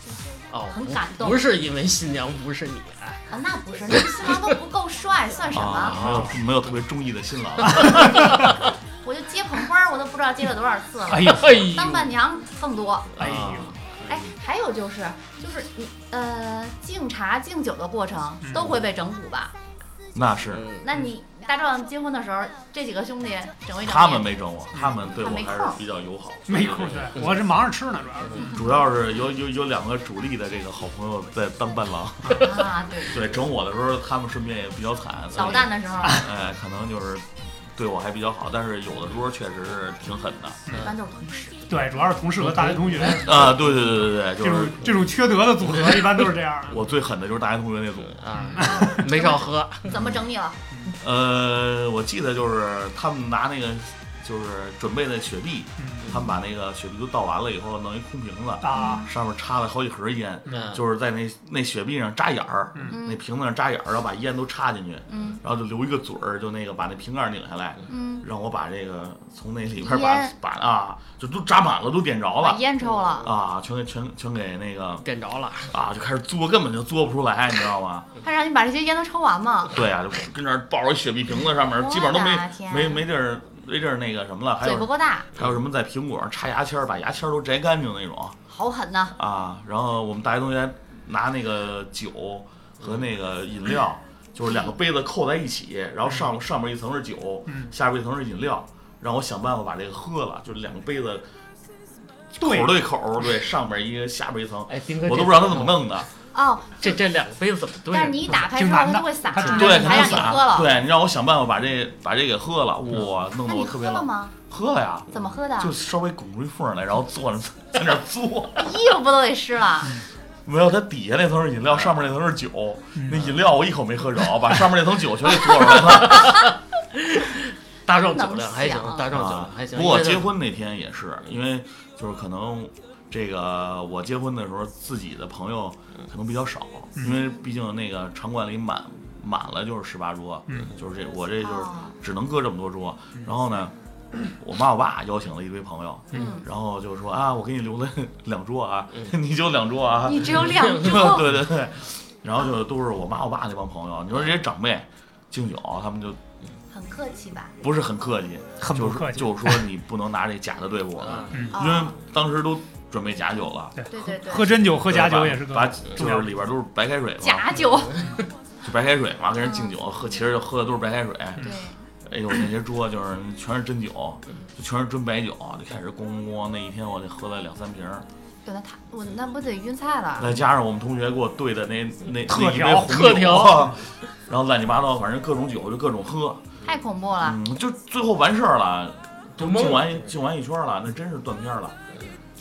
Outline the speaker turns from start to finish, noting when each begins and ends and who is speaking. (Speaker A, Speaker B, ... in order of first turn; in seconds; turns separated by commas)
Speaker A: 0.5-3.3, Speaker B: 0.7-1.5, Speaker B: 3.3-6.0, Speaker C: 5.5-8.2, Speaker A: 5.8-6.4, Speaker D: 7.7-8.0, Speaker A: 7.9-8.6, Speaker B: 8.0-8.5, Speaker B: 9.0-13.2, Speaker D: 11.1-12.0, Speaker A: 11.3-12.1, Speaker A: 13.2-14.2, Speaker D: 13.2-13.8, Speaker B: 14.1-19.5, Speaker C: 20.1-20.6, Speaker A: 20.5-20.9, Speaker B: 20.8-24.3, Speaker C: 23.8-27.1, Speaker B: 25.1-25.8, Speaker D: 26.5-28.6, Speaker A: 26.7-27.4, Speaker A: 28.2-28.5, Speaker B: 28.3-28.7, Speaker C: 28.5-40.6, Speaker D: 32.2-32.5, Speaker B: 32.3-33.2, Speaker B: 35.3-36.3, Speaker A: 40.7-40.9, Speaker B: 40.8-41.6, Speaker D: 41.7-46.8, Speaker A: 42.4-43.5, Speaker C: 43.1-45.1, Speaker A: 45.6-46.3, Speaker C: 46.7-48.2, Speaker A: 48.1-49.9, Speaker D: 48.3-49.1, Speaker B: 48.6-50.6, Speaker C: 49.9-50.2, Speaker C: 50.9-72.6, Speaker D: 55.8-56.1, Speaker D: 58.6-59.0, Speaker B: 58.7-59.1, Speaker A: 60.5-60.8, Speaker B: 62.9-63.2, Speaker B: 65.1-65.4, Speaker B: 67.9-68.2, Speaker B: 69.8-70.3, Speaker B: 72.4-73.3, Speaker C: 73.2-75.0, Speaker A: 75.0-75.7, Speaker C: 75.7-78.1, Speaker B: 78.2-79.7, Speaker C: 79.7-88.4, Speaker B: 81.7-83.0, Speaker B: 84.6-85.3, Speaker B: 88.5-89.1, Speaker C: 89.2-101.2, Speaker D: 97.5-97.7, Speaker C: 102.3-106.1, Speaker D: 102.4-102.7, Speaker A: 104.7-106.0, Speaker B: 106.3-107.0, Speaker A: 106.8-108.5, Speaker B: 107.9-110.7, Speaker D: 108.5-110.4, Speaker A: 109.4-109.8, Speaker C: 109.5-115.1, Speaker B: 113.4-114.3, Speaker B: 115.1-115.7, Speaker C: 115.6-118.7, Speaker B: 118.6-120.0, Speaker C: 120.4-126.4, Speaker D: 123.0-123.2, Speaker A: 125.9-126.4, Speaker A: 127.0-130.3, Speaker B: 128.0-129.1, Speaker C: 129.1-143.7, Speaker B: 141.4-141.9, Speaker C: 144.3-156.2, Speaker B: 146.1-146.5, Speaker B: 150.0-151.3, Speaker A: 150.5-151.2, Speaker B: 156.7-157.6, Speaker C: 157.6-163.8, Speaker D: 158.6-159.6, Speaker A: 161.0-161.4, Speaker D: 161.3-161.6, Speaker B: 161.5-161.9, Speaker D: 163.8-166.3, Speaker B: 163.9-164.6, Speaker C: 164.8-167.5, Speaker B: 167.2-168.1, Speaker A: 167.9-168.2, Speaker C: 168.6-171.4, Speaker B: 169.4-169.7, Speaker B: 171.4-171.8, Speaker C: 172.0-178.1, Speaker B: 178.4-180.4, Speaker C: 180.2-186.4, Speaker D: 182.3-183.7, Speaker A: 182.8-183.8, Speaker B: 186.6-187.4, Speaker C: 187.2-191.7, Speaker A: 189.4-190.0